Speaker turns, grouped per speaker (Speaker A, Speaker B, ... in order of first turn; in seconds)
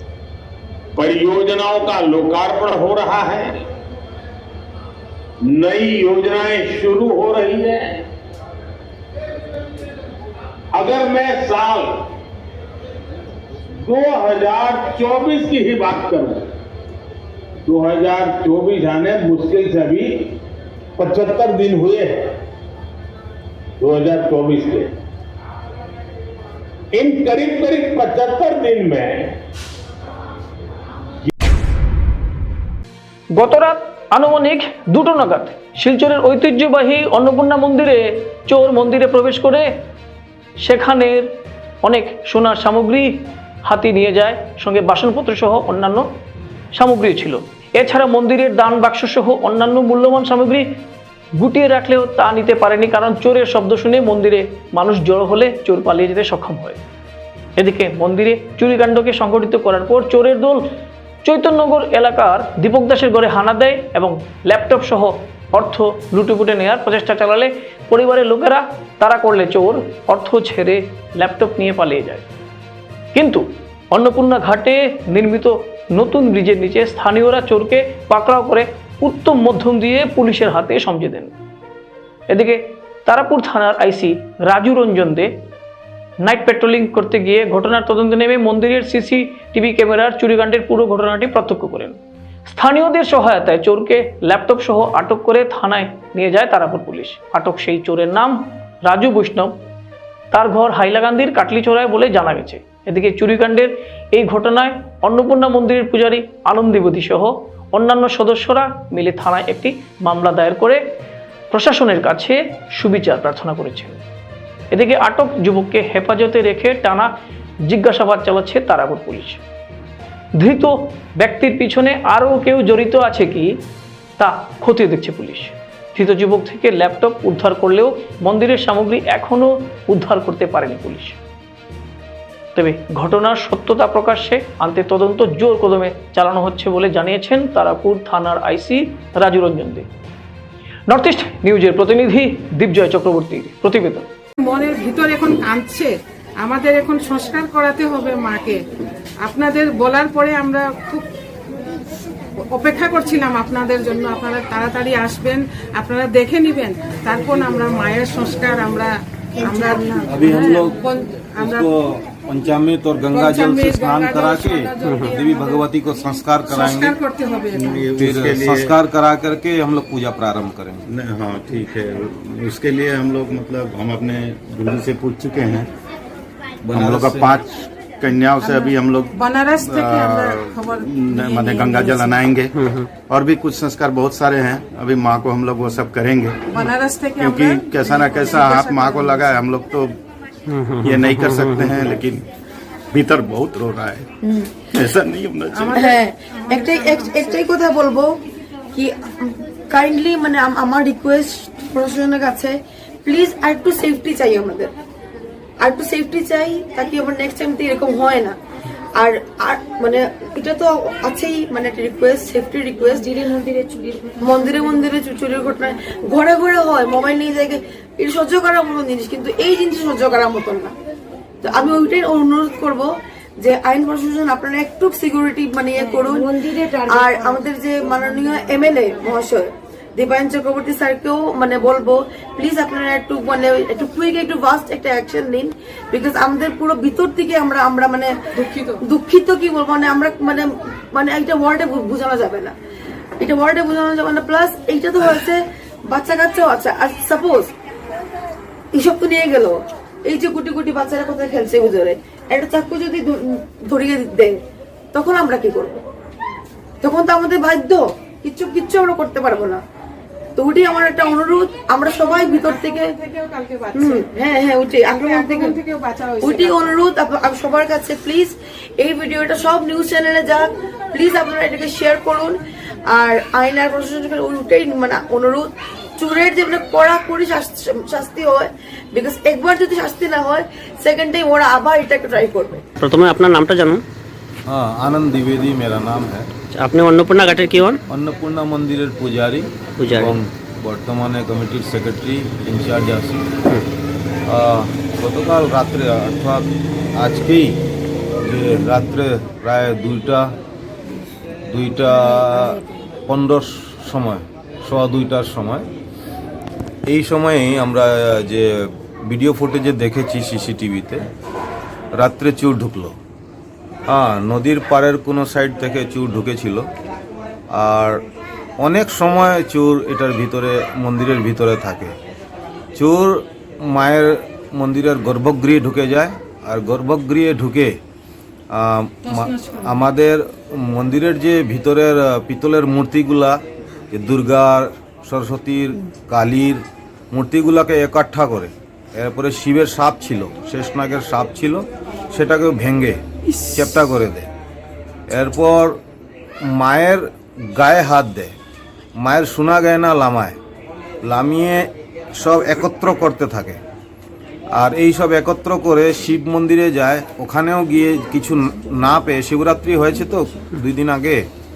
Speaker A: 0.9-3.6, 5.5-8.0, 10.7-12.0, 13.8-16.4, 17.6-20.1, 21.0-22.3, 23.8-24.9, 26.9-29.4
Speaker B: 33.3-39.7, 40.6-46.1, 46.7-50.7, 51.4-56.8, 57.6-60.7, 61.2-72.2, 73.1-81.3, 82.3-85.3, 86.2-99.5, 100.3-110.8, 111.5-114.0, 114.7-117.1, 117.7-119.4, 120.4-123.6, 124.2-131.2, 132.6-139.9, 140.9-144.1
Speaker C: 144.4-148.6, 149.2-151.1, 152.5-161.7, 163.1-165.7, 166.5-167.9, 178.4-182.2, 186.5-189.3, 195.5-197.4, 238.4-238.8, 262.2-264.1, 264.8-266.7, 329.1-329.8
Speaker D: 160.1-160.8, 161.4-167.0, 168.0-170.8, 176.7-177.3, 284.5-286.3, 287.9-293.3, 294.3-296.5, 297.0-297.6, 298.2-300.3, 301.5-305.6, 306.9-311.0, 311.9-312.9, 313.9-316.6, 317.5-318.0, 318.6-321.9, 322.7-327.8, 328.5-333.4, 333.9-343.0, 343.5-344.3, 345.1-345.8, 346.5-348.3, 349.0-350.4, 351.0-353.6, 354.5-361.2
Speaker E: 167.6-168.8, 170.9-175.7, 176.7-182.5, 183.1-189.9, 190.8-192.2, 192.9-194.1, 194.7-195.8
Speaker F: 190.5-191.5, 282.8-283.8, 286.6-287.8
Speaker G: 195.7-198.2, 198.7-204.7, 205.6-208.3, 208.9-220.7, 221.4-238.1, 238.8-242.5, 243.2-247.5, 248.7-254.4, 254.9-255.8, 256.8-259.6, 260.4-262.9, 263.7-265.6, 266.2-282.6